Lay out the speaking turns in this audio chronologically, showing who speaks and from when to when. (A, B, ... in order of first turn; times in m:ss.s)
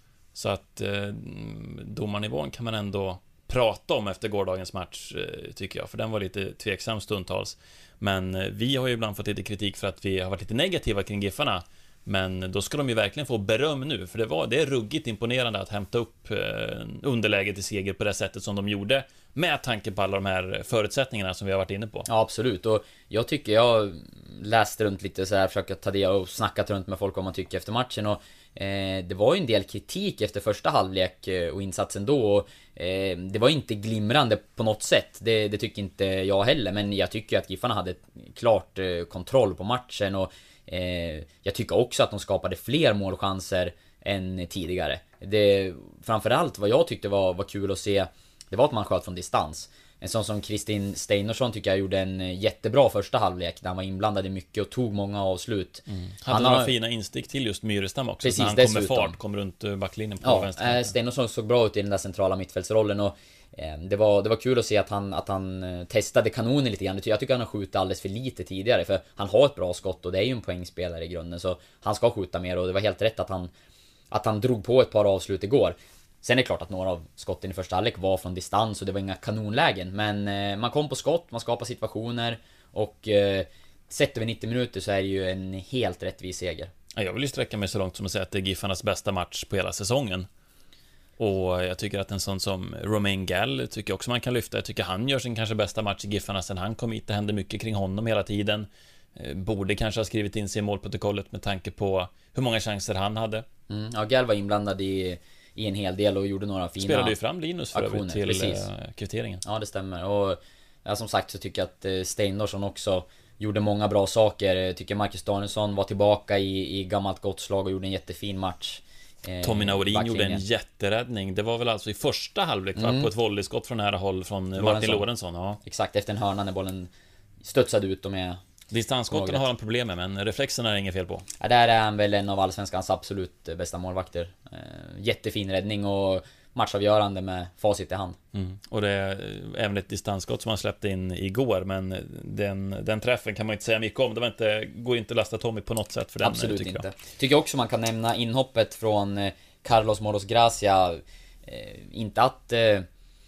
0:00.4-0:22.1 A
0:22.1-0:56.7 B
0:55.9-1:00.9 A
0:58.2-0:59.2 B
1:00.2-1:13.5 B
1:14.1-1:26.7 B
1:27.0-1:30.3 A
1:31.2-1:43.5 A
1:43.7-1:47.2 B
1:46.8-1:49.4 A
1:47.7-1:48.7 B
1:49.4-2:00.4 B
1:59.4-2:05.6 A
2:02.8-2:03.1 B
2:04.6-2:05.1 B
2:05.6-2:06.9 B
2:07.4-2:08.4 B
2:08.7-2:11.2 A
2:09.1-2:09.5 B
2:11.4-2:18.2 B
2:18.3-2:26.8 A
2:26.2-2:32.9 B